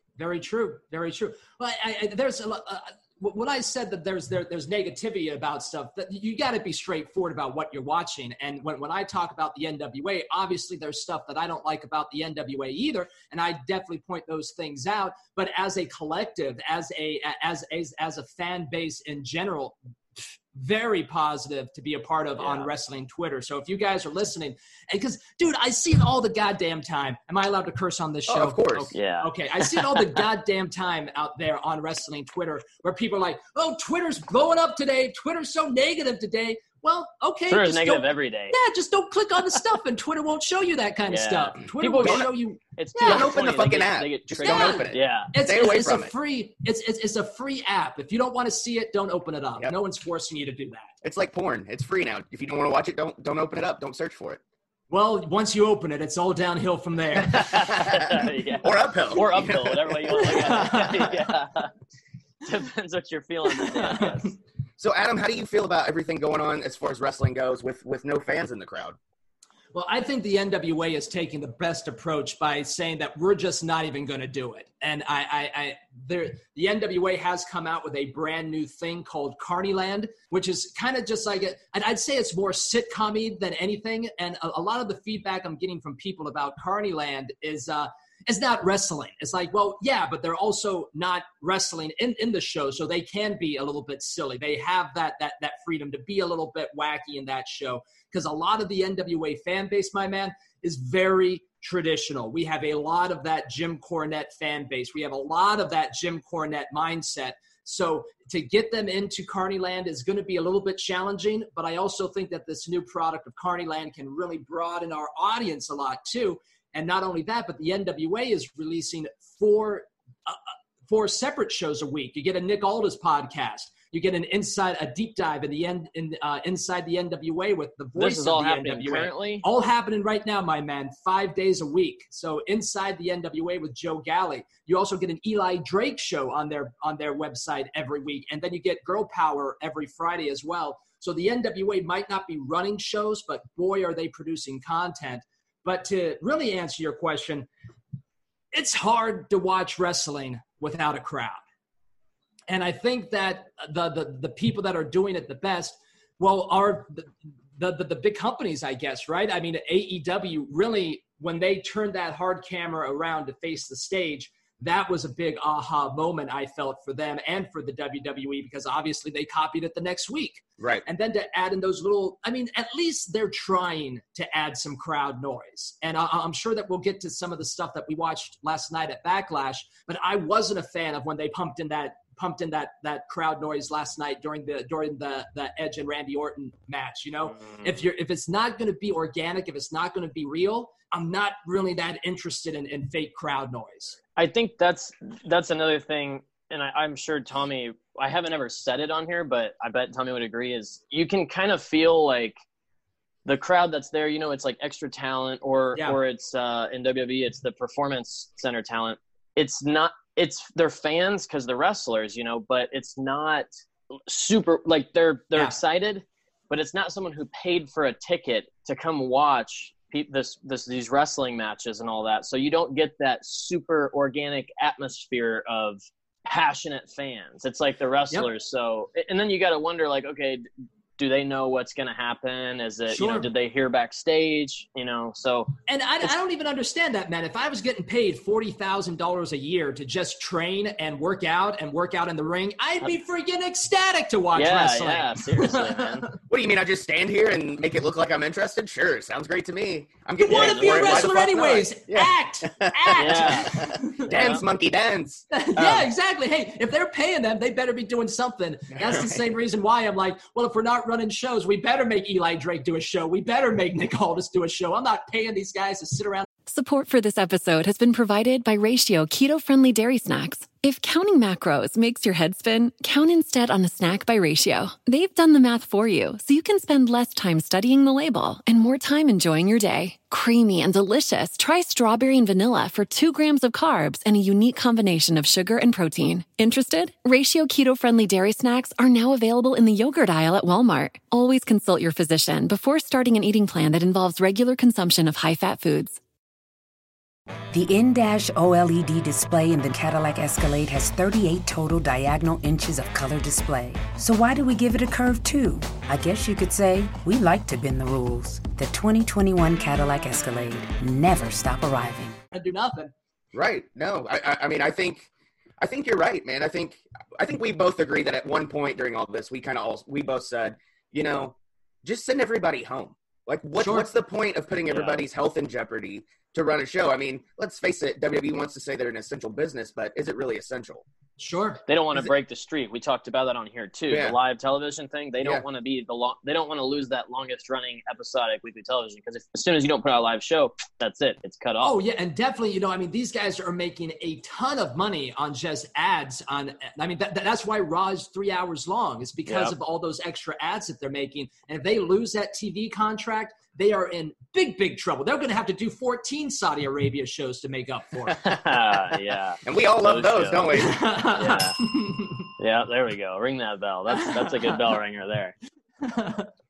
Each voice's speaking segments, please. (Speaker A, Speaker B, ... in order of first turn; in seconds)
Speaker A: 0.2-43.4, 44.4-50.9, 54.9-57.6, 60.2-61.1, 63.5-64.2, 69.7-147.5, 148.5-151.4, 152.5-194.0, 232.9-233.3, 235.7-246.2, 250.2-254.3, 255.3-266.3, 312.3-312.9, 323.6-323.9, 331.2-331.6, 341.6-358.2, 360.5-362.3, 363.9-364.6, 365.8-366.3
Speaker B: 22.4-22.7, 28.9-30.2, 37.5-38.6, 41.1-45.3, 57.3-61.7, 62.4-64.4, 128.0-129.5, 187.4-187.7, 194.2-202.4, 203.3-213.5, 214.1-230.5, 231.0-235.5, 244.3-246.1, 250.3-251.1, 253.0-254.4, 324.7-325.0, 331.7-341.8, 349.3-349.5, 358.2-361.6, 362.4-365.4
Speaker C: 28.3-28.9, 42.0-42.3, 43.0-46.1, 51.0-54.4, 57.4-60.6, 64.8-69.0, 170.6-170.9, 246.3-255.9, 258.7-259.2, 313.3-315.1, 315.6-330.8, 333.9-334.2, 359.4-360.8
Speaker D: 266.5-296.0
Speaker E: 297.5-312.2